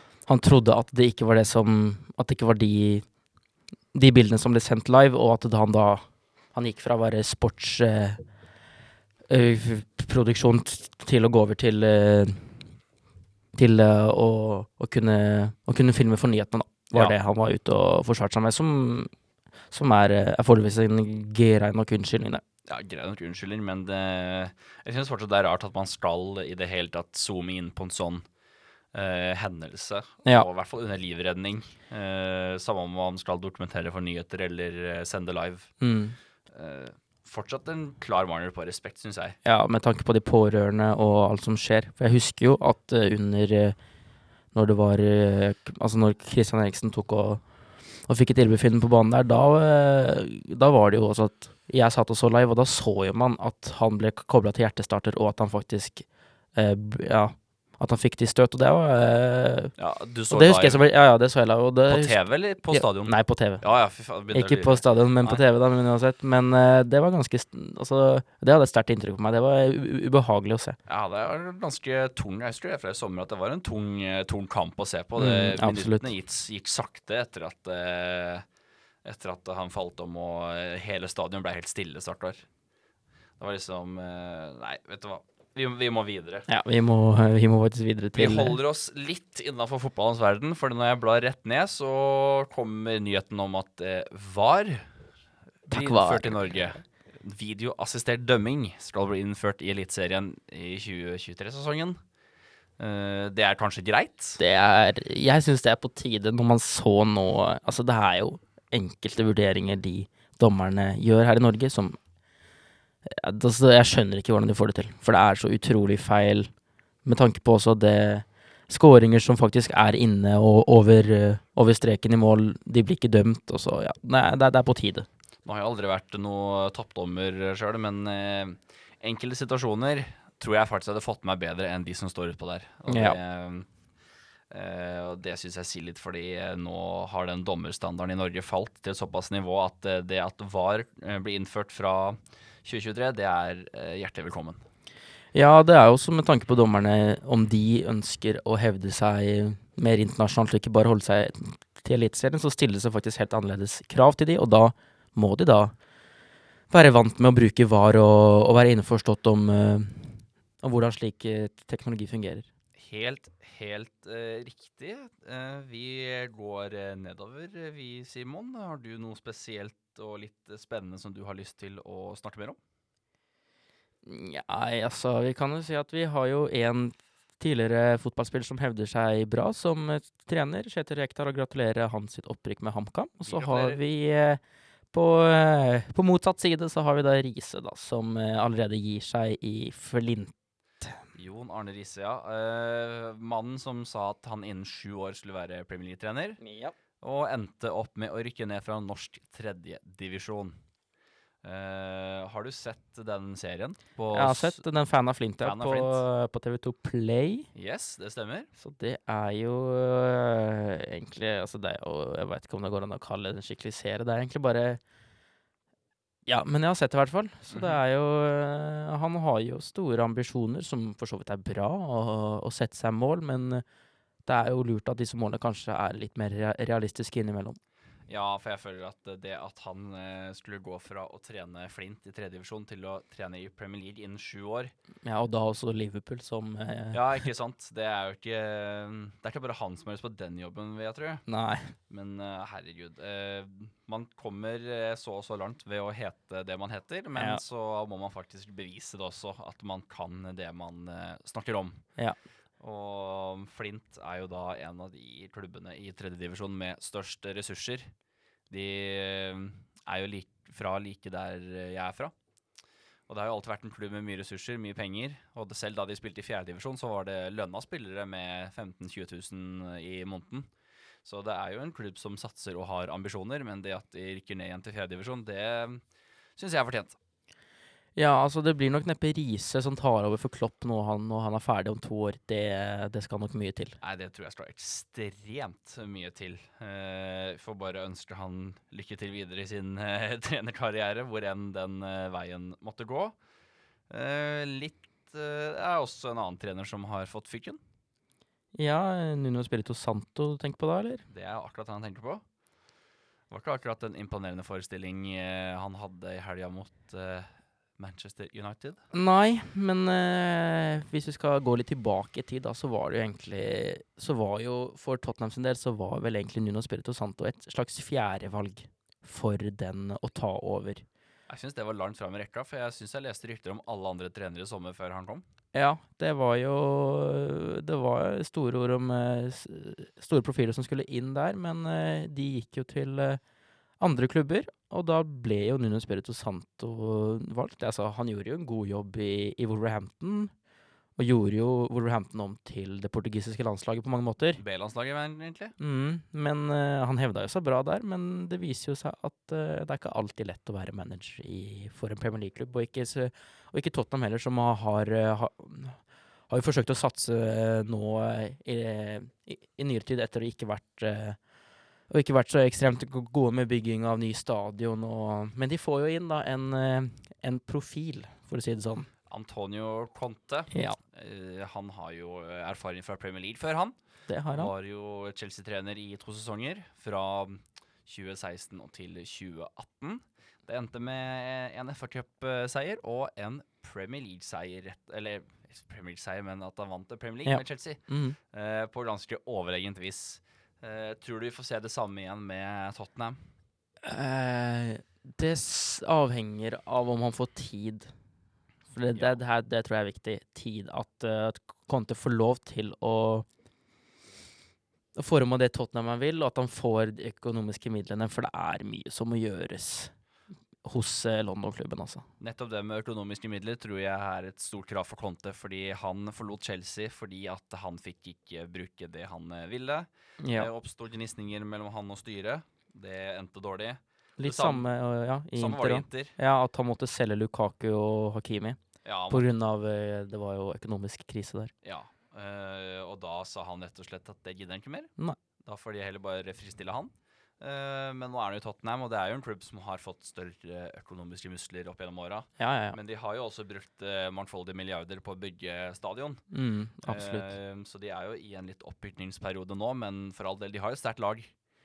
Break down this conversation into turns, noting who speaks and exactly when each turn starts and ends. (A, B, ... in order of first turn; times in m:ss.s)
0:00.3-0:03.0 A
0:03.9-0:08.2 A
0:09.3-0:12.6 A
0:13.6-0:19.1 A
0:19.7-0:22.4 A
0:22.7-0:28.2 B
0:28.9-0:35.7 B
0:35.8-0:36.2 A
0:36.5-0:39.4 B
0:39.4-0:43.8 A
0:44.5-0:47.4 A
0:48.1-0:59.8 A
0:59.8-1:00.8 B
1:00.3-1:03.6 A
1:01.9-1:05.4 B
1:04.3-1:10.8 A
1:10.9-1:18.5 B
1:15.2-1:16.1 A
1:19.0-1:22.5 B
1:23.4-1:26.5 B
1:26.5-1:28.6 A
1:28.2-1:34.9 B
1:35.7-1:42.0 B
1:35.7-1:36.4 A
1:42.8-1:44.4 B
1:44.4-1:52.0 A
1:53.1-1:56.5 A
1:57.0-2:05.1 A
2:05.4-2:13.7 B
2:12.9-2:13.2 A
2:14.5-2:24.6 B
2:25.3-2:35.7 A
2:36.7-2:42.5 A
2:42.8-2:52.6 B
2:54.0-3:04.4 A
3:03.2-3:03.8 B
3:04.9-3:10.3 A
3:11.1-3:16.4 B
3:16.4-3:16.7 A
3:17.0-3:20.6 B
3:21.4-3:24.6 B
3:24.1-3:27.5 A
3:25.4-3:26.0 B
3:27.6-3:28.5 B
3:28.6-3:34.8 A
3:36.3-3:43.6 A
3:37.5-3:37.8 B
3:44.2-3:47.6 A
3:48.1-3:54.7 B
3:55.0-3:57.0 A
3:56.9-4:01.2 B
4:01.3-4:01.7 A
4:01.9-4:11.8 B
4:07.2-4:07.4 A
4:12.6-4:17.9 B
4:18.5-4:22.1 B
4:23.1-4:30.5 B
4:31.0-4:35.8 B
4:36.4-4:37.0 B
4:38.0-4:43.8 A
4:43.8-4:53.2 B
4:53.9-4:57.6 B
4:58.6-5:01.0 A
5:01.1-5:02.2 B
5:03.3-5:08.8 B
5:08.9-5:20.8 A
5:21.3-5:25.2 B
5:25.5-5:33.2 A
5:33.8-5:40.3 A
5:41.0-5:44.4 A
5:44.4-5:45.6 B
5:45.6-6:01.2 A
6:01.9-6:08.9 A
6:09.1-6:13.8 B
6:10.5-6:10.8 A
6:14.1-6:14.5 A
6:14.3-6:33.3 B
6:27.2-6:28.2 A
6:33.8-6:37.9 A
6:38.7-6:43.3 A
6:38.9-6:39.2 B
6:45.0-6:49.9 A
6:50.6-6:52.1 A
6:52.2-7:04.7 B
7:00.2-7:00.5 A
7:04.2-7:08.6 A
7:05.3-7:06.1 B
7:08.8-7:09.3 B
7:09.1-7:11.5 A
7:11.6-7:14.9 B
7:15.4-7:26.2 B
7:22.4-7:22.8 A
7:26.3-7:27.3 A
7:26.8-7:31.3 B